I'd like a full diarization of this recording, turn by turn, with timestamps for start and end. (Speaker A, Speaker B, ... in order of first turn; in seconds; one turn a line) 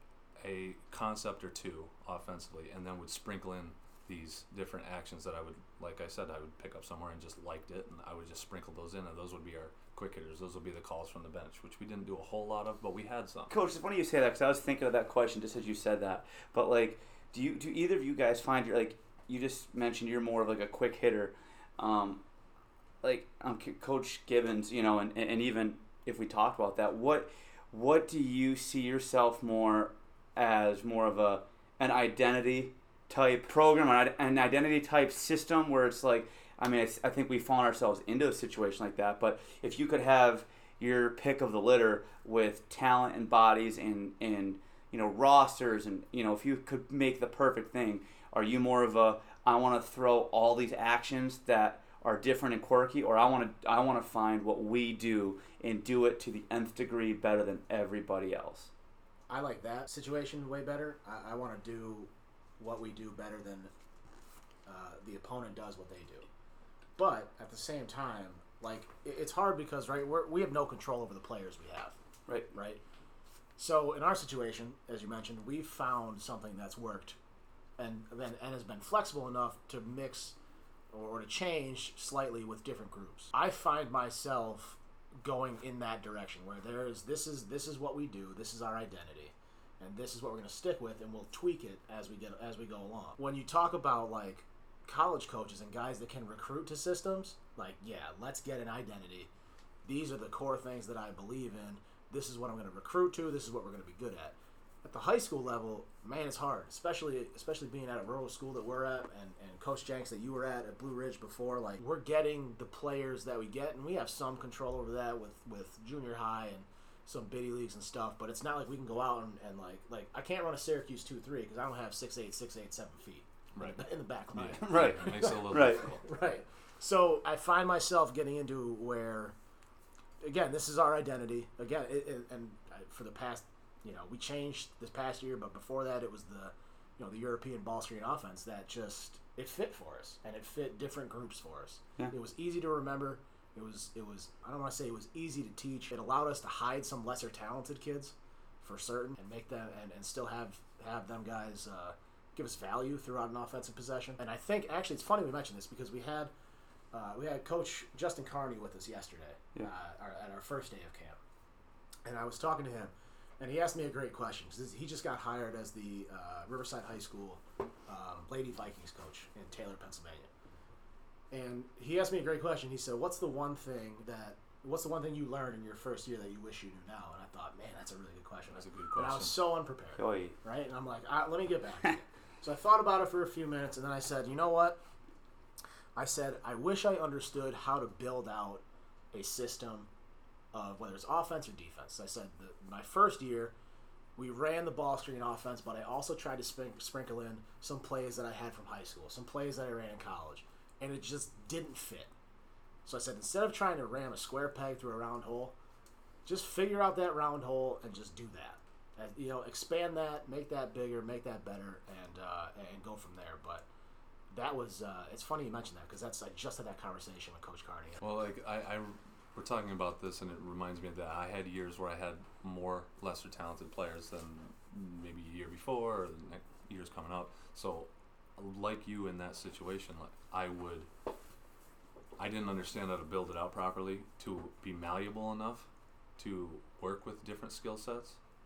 Speaker A: 0.4-13.5
Speaker B: 13.5-22.2
Speaker B: 23.0-58.7
Speaker C: 59.3-63.7
Speaker C: 64.7-66.3
Speaker C: 67.0-72.0
Speaker C: 72.5-72.8
Speaker C: 73.6-77.2
Speaker C: 77.8-80.3
Speaker C: 80.9-99.3
Speaker C: 99.8-129.3
Speaker A: 123.5-126.0
Speaker B: 124.6-125.8
Speaker C: 130.2-156.3
Speaker C: 156.9-161.2
Speaker C: 162.0-170.3
Speaker C: 171.3-184.8
Speaker A: 178.5-179.3
Speaker B: 180.0-180.3
Speaker C: 186.0-189.9
Speaker C: 190.5-193.5
Speaker C: 194.2-202.1
Speaker C: 202.8-205.5
Speaker C: 206.2-213.7
Speaker C: 214.3-218.2
Speaker A: 218.0-230.9
Speaker A: 232.2-238.2